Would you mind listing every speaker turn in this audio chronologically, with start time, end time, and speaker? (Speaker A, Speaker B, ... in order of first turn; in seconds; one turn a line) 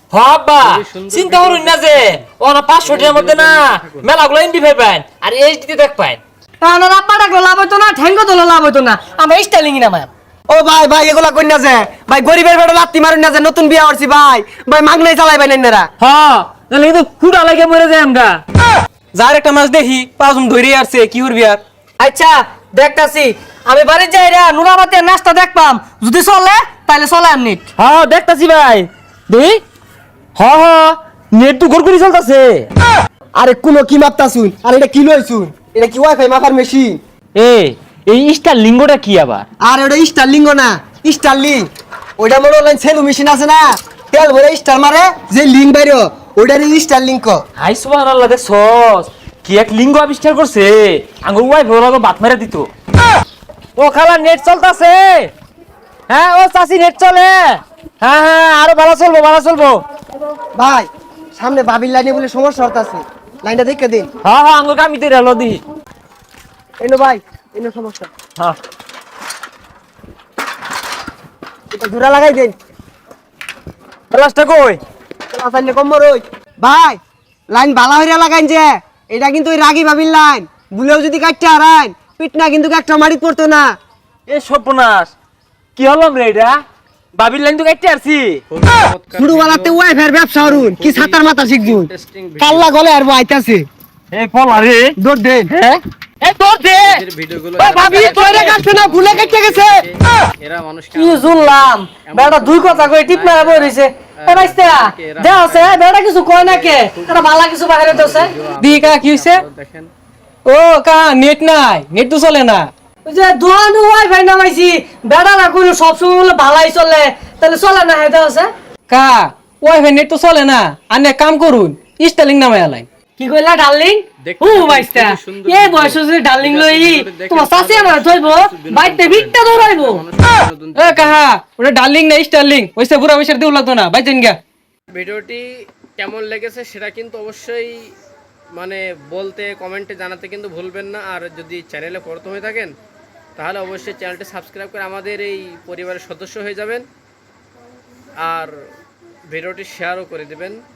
Speaker A: 0.1-6.2
Speaker B: 0.6-2.3
Speaker B: 2.8-4.1
Speaker C: 6.6-10.1
Speaker D: 10.5-15.9
Speaker A: 16.0-18.4
Speaker E: 19.1-21.6
Speaker C: 22.0-27.7
Speaker A: 27.8-29.6
Speaker A: 30.4-32.7
Speaker D: 33.3-37.0
Speaker A: 37.3-39.5
Speaker D: 39.6-41.7
Speaker D: 42.2-47.4
Speaker A: 47.6-52.7
Speaker A: 53.8-55.3
Speaker A: 56.1-59.8
Speaker D: 60.5-64.1
Speaker A: 64.2-65.6
Speaker D: 66.8-68.1
Speaker D: 71.7-72.5
Speaker A: 74.1-74.8
Speaker D: 75.3-83.7
Speaker A: 84.3-85.1
Speaker A: 85.8-86.6
Speaker A: 87.2-88.4
Speaker B: 88.5-92.7
Speaker D: 89.2-93.7
Speaker A: 94.1-95.0
Speaker D: 95.0-95.5
Speaker A: 95.5-97.0
Speaker B: 96.7-109.9
Speaker D: 97.6-99.8
Speaker A: 97.8-98.3
Speaker C: 101.0-108.3
Speaker E: 108.6-109.4
Speaker E: 110.5-112.7
Speaker C: 113.0-118.5
Speaker E: 118.9-122.8
Speaker C: 123.2-130.0
Speaker B: 124.2-131.2
Speaker E: 130.8-134.4
Speaker B: 134.9-135.4
Speaker B: 136.0-137.9
Speaker B: 138.5-142.7
Speaker B: 143.4-146.8
Speaker B: 148.2-148.5
Speaker B: 149.3-150.6